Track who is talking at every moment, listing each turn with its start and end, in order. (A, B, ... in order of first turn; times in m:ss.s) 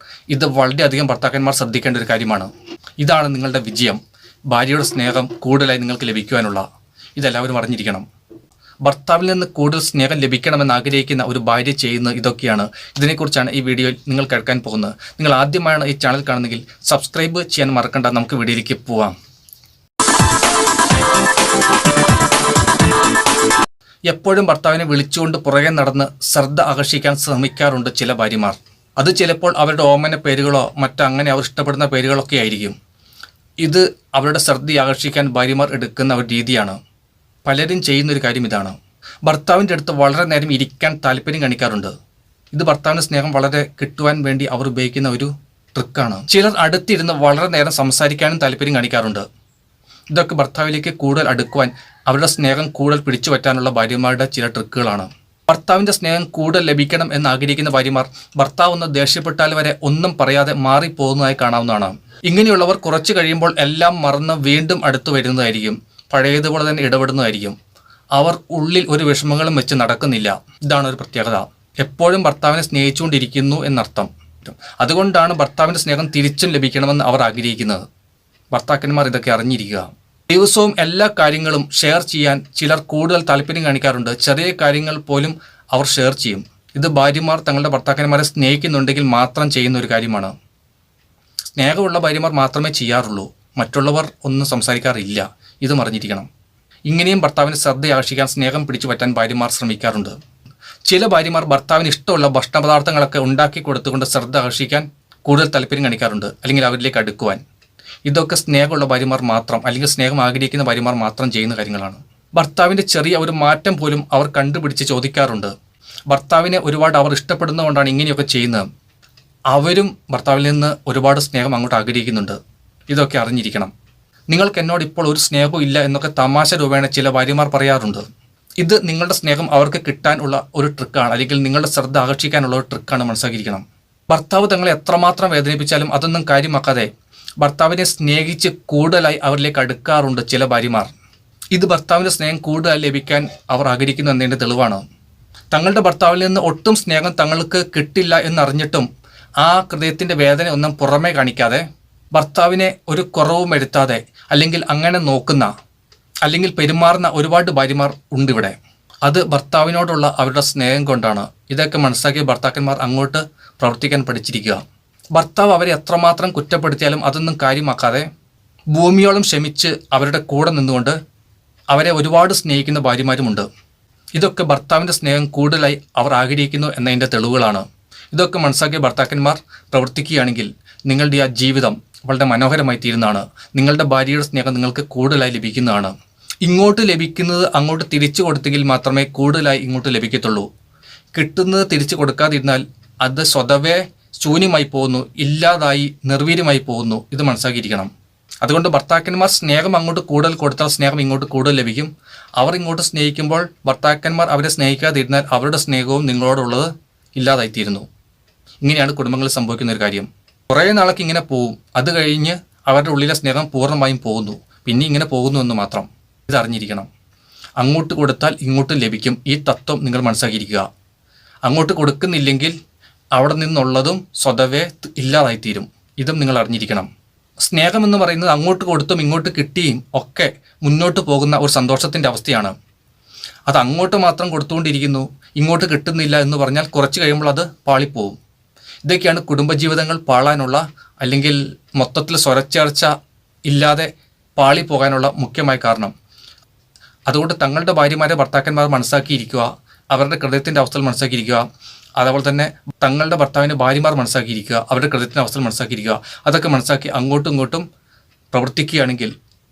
0:00.3-0:06.6 A
0:07.2-0:08.0 A
0:08.8-0:19.1 A
0:24.1-0:32.7 A
0:33.6-0:36.8 A
0:37.4-0:41.9 A
0:42.5-0:49.2 A
0:50.1-1:07.6 A
1:08.1-1:17.8 A
1:18.5-1:30.3 A
1:31.6-1:36.3 A
1:36.9-1:40.1 A
1:40.8-1:47.4 A
1:48.0-1:55.5 A
1:56.1-1:58.7 A
1:59.5-2:02.4 A
2:02.9-2:03.7 A
2:04.3-2:08.0 A
2:08.6-2:16.9 A
2:17.4-2:20.9 A
2:21.5-2:24.8 A
2:25.5-2:28.9 A
2:29.4-2:35.5 A
2:36.2-2:44.6 A
2:45.1-2:48.1 A
2:48.7-2:51.0 A
2:51.7-2:53.5 A
2:54.2-3:10.5 A
3:11.1-3:17.9 A
3:18.4-3:27.8 A
3:28.6-3:36.9 A
3:37.6-3:40.6 A
3:41.4-3:42.5 A
3:43.1-3:46.9 A
3:47.4-3:52.5 A
3:53.5-3:58.2 A
3:58.8-4:02.9 A
4:03.5-4:05.9 A
4:07.1-4:11.4 A
4:12.0-4:17.6 A
4:18.3-4:19.1 A